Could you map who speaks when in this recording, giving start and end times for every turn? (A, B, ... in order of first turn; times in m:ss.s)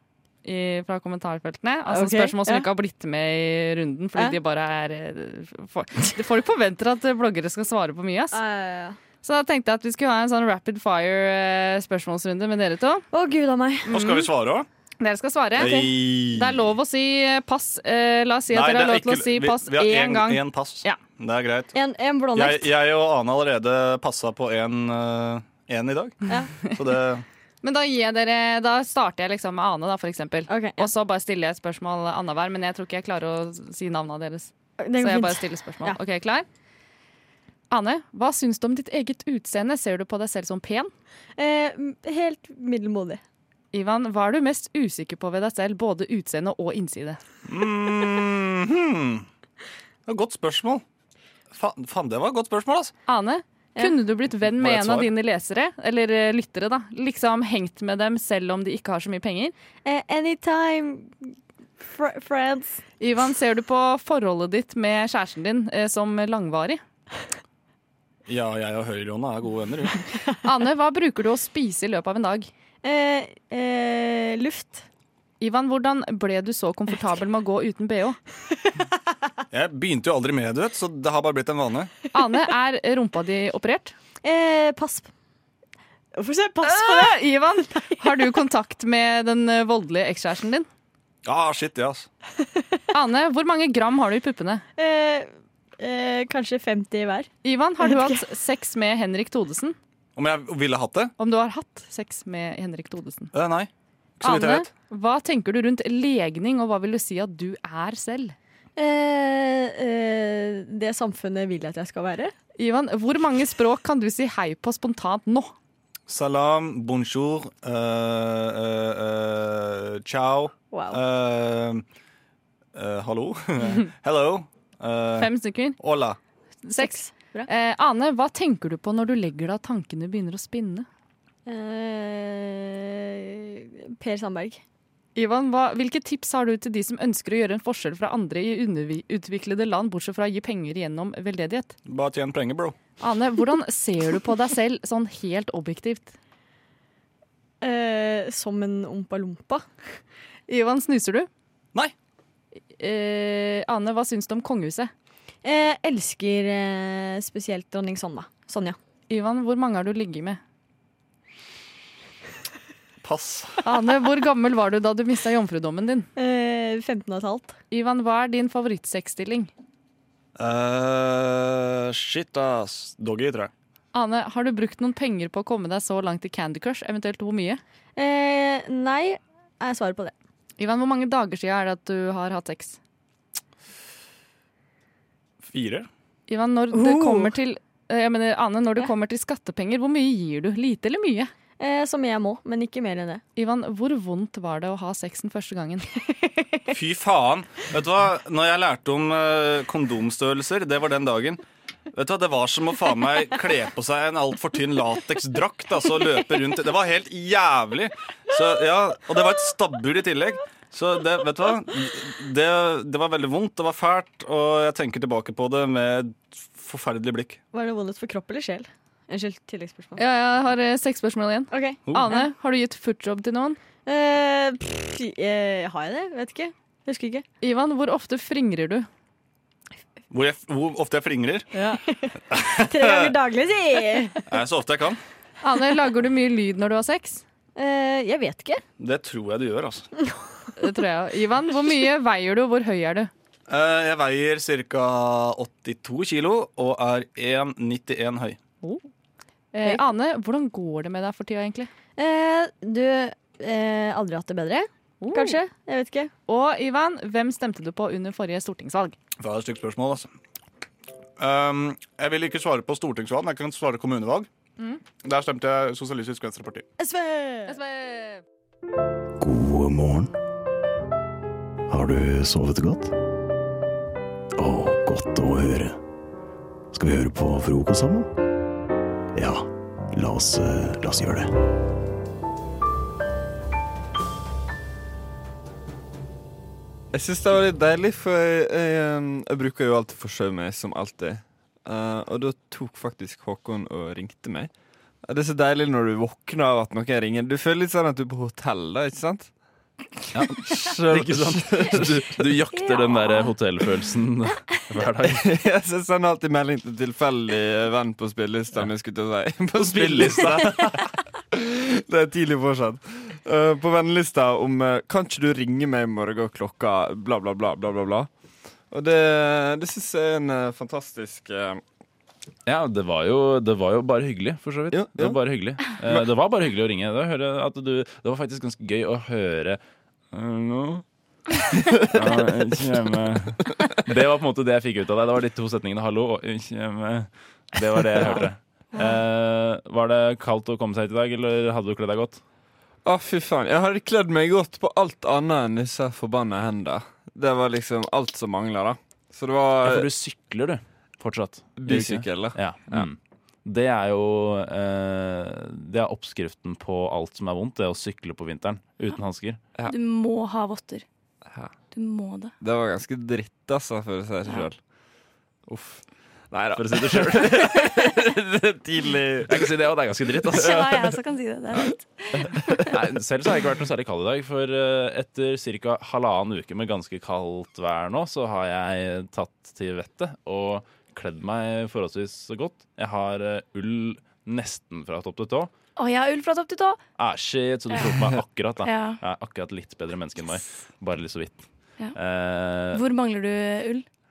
0:00.4-0:08.4 A
0:01.8-0:02.7 B
0:08.3-0:09.0 B
0:09.2-0:13.0 A
0:13.1-0:14.3 B
0:13.8-0:14.7 C
0:15.0-0:21.0 A
0:15.6-0:16.6 C
0:18.5-0:21.7 C
0:21.7-0:22.7 B
0:22.3-0:27.2 C
0:27.6-0:36.4 A
0:30.5-0:30.8 B
0:34.8-0:36.0 B
0:37.7-0:40.9 A
0:41.4-0:43.2 B
0:43.7-0:47.2 A
0:47.5-0:49.2 C
0:50.0-0:50.8 C
0:51.5-0:52.9 C
0:53.0-0:59.5 A
0:54.4-0:55.1 C
0:59.8-1:02.8 B
1:03.0-1:06.8 A
1:08.3-1:10.0 C
1:10.4-1:12.5 A
1:12.8-1:14.8 B
1:15.4-1:18.2 A
1:19.5-1:21.9 C
1:22.1-1:23.9 A
1:24.2-1:25.1 B
1:26.1-1:28.0 B
1:26.6-1:30.7 A
1:31.2-1:32.1 C
1:32.9-1:34.6 A
1:34.8-1:38.2 B
1:37.4-1:39.8 A
1:40.2-1:41.1 C
1:41.2-1:43.3 A
1:43.3-1:43.7 C
1:44.2-1:44.7 C
1:44.2-1:48.4 A
1:48.8-1:52.3 B
1:52.6-1:55.5 A
1:56.1-2:01.8 C
2:00.7-2:01.0 B
2:02.7-2:06.2 C
2:05.2-2:05.8 A
2:06.6-2:10.9 A
2:06.8-2:07.5 B
2:11.4-2:14.6 B
2:15.1-2:21.8 A
2:21.8-2:22.7 C
2:23.0-2:26.2 A
2:27.6-2:30.0 B
2:30.5-2:31.3 A
2:32.8-2:34.9 A
2:35.4-2:38.8 B
2:39.1-2:40.4 A
2:43.0-2:43.6 C
2:43.6-2:46.1 A
2:46.2-2:47.6 B
2:47.7-2:49.5 A
2:50.4-2:53.5 C
2:53.9-2:57.6 A
2:58.0-3:00.1 B
3:00.6-3:02.8 A
3:05.4-3:05.9 C
3:06.3-3:11.3 A
3:06.7-3:07.3 B
3:11.6-3:13.2 B
3:13.4-3:15.9 A
3:16.2-3:16.6 B
3:16.7-3:21.4 C
3:21.9-3:37.4 C
3:37.5-3:40.0 B
3:40.0-3:43.6 A
3:41.5-3:42.3 B
3:43.8-3:47.2 B
3:47.4-3:48.9 A
3:50.1-3:51.5 C
3:51.5-3:54.2 B
3:52.4-3:53.1 C
3:54.3-3:55.0 C
3:55.4-3:57.2 A
3:57.5-3:58.6 B
3:58.8-3:59.9 C
4:00.6-4:03.1 A
4:03.5-4:08.4 C
4:09.5-4:11.7 A
4:12.0-4:16.1 B
4:15.0-4:15.4 A
4:16.3-4:18.9 A
4:19.2-4:20.1 C
4:21.2-4:24.3 C
4:25.0-4:26.6 C
4:26.8-4:27.6 B
4:27.5-4:28.2 A
4:29.2-4:30.1 D
4:31.7-4:32.9 D
4:34.4-4:35.8 D
4:36.7-4:38.1 D
4:39.1-4:41.3 D
4:46.9-4:59.7 E
5:00.1-5:05.3 F
5:00.5-5:02.2 E
5:02.5-5:03.4 G
5:05.0-5:10.8 E
5:09.5-5:10.9 F
5:11.4-5:21.6 E
5:22.4-5:29.6 F
5:24.7-5:25.2 E
5:30.1-5:30.8 F
5:31.9-5:42.2 F
5:38.7-5:39.0 G
5:42.8-5:49.9 E
5:49.6-5:59.4 F
5:51.6-5:52.9 E
5:59.6-6:00.8 G
6:01.3-6:01.6 E
6:01.7-6:02.3 G
6:02.4-6:07.6 E
6:06.5-6:07.6 F
6:08.3-6:08.6 E
6:08.6-6:09.3 C
6:09.3-6:10.7 F
6:10.3-6:12.3 G
6:12.6-6:25.5 F
6:25.8-6:26.8 G
6:27.0-6:32.8 F
6:27.7-6:28.0 G
6:28.6-6:29.0 G
6:32.7-6:33.9 G